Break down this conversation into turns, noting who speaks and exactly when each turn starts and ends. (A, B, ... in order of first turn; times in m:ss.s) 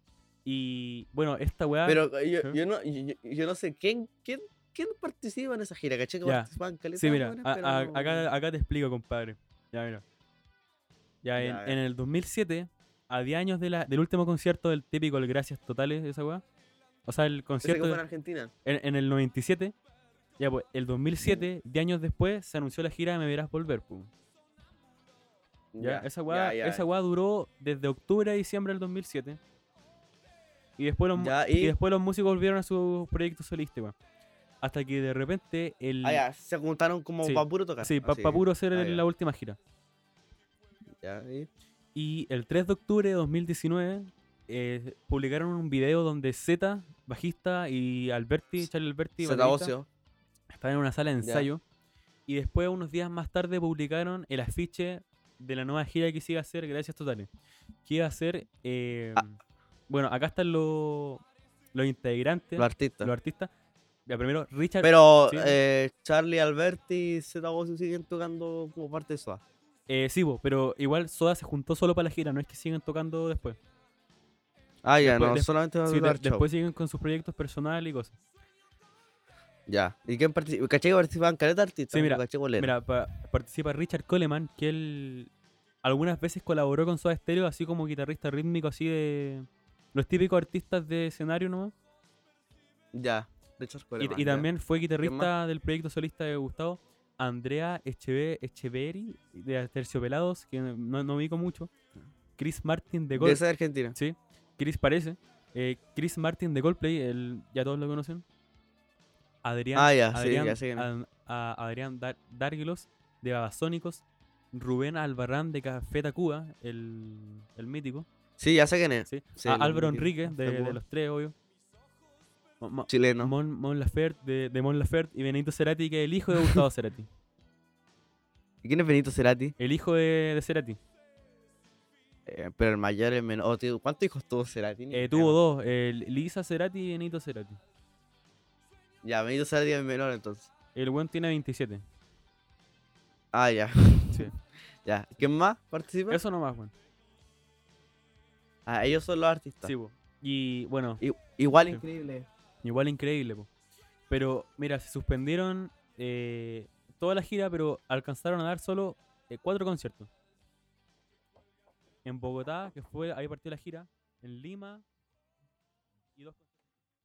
0:00.4-0:02.6 A
0:01.9-0:08.3 B
0:06.2-0:10.0 A
0:11.2-0:16.4 A
0:11.4-0:11.8 B
0:17.0-0:18.0 A
0:17.6-0:18.5 B
0:18.6-0:19.8 A
0:20.4-0:24.1 A
0:25.7-0:26.8 B
0:25.8-0:29.4 A
0:30.8-0:34.0 A
0:31.2-0:31.8 B
0:34.6-0:36.2 A
0:36.0-0:39.0 B
0:37.2-0:39.6 A
0:41.0-0:41.5 B
0:42.0-0:49.7 A
0:49.2-0:49.9 B
0:50.5-0:51.6 A
0:51.2-0:51.5 B
0:52.3-0:57.3 A
0:57.8-0:59.4 A
0:59.9-1:03.5 A
1:02.6-1:03.1 B
1:04.0-1:05.6 A
1:04.8-1:09.4 B
1:09.9-1:13.6 A
1:14.8-1:16.4 B
1:15.0-1:18.1 A
1:19.7-1:22.7 B
1:21.9-1:25.3 A
1:25.8-1:31.7 A
1:32.9-1:34.5 B
1:34.0-1:41.7 A
1:35.0-1:35.3 B
1:42.4-1:43.4 A
1:43.1-1:44.0 B
1:44.0-1:48.2 A
1:49.4-1:58.1 A
1:49.8-1:50.9 B
1:58.4-2:00.8 B
1:59.1-2:01.4 A
2:02.6-2:07.1 A
2:02.9-2:03.3 B
2:08.6-2:09.6 B
2:09.6-2:10.8 A
2:12.3-2:15.4 B
2:14.9-2:17.6 A
2:19.0-2:20.5 B
2:20.8-2:21.8 A
2:23.3-2:24.3 B
2:24.8-2:26.2 B
2:26.1-2:26.7 A
2:28.6-2:29.7 B
2:29.6-2:31.0 A
2:31.0-2:32.3 B
2:32.6-2:33.5 A
2:34.1-2:40.1 A
2:42.0-2:44.8 A
2:46.2-2:46.4 A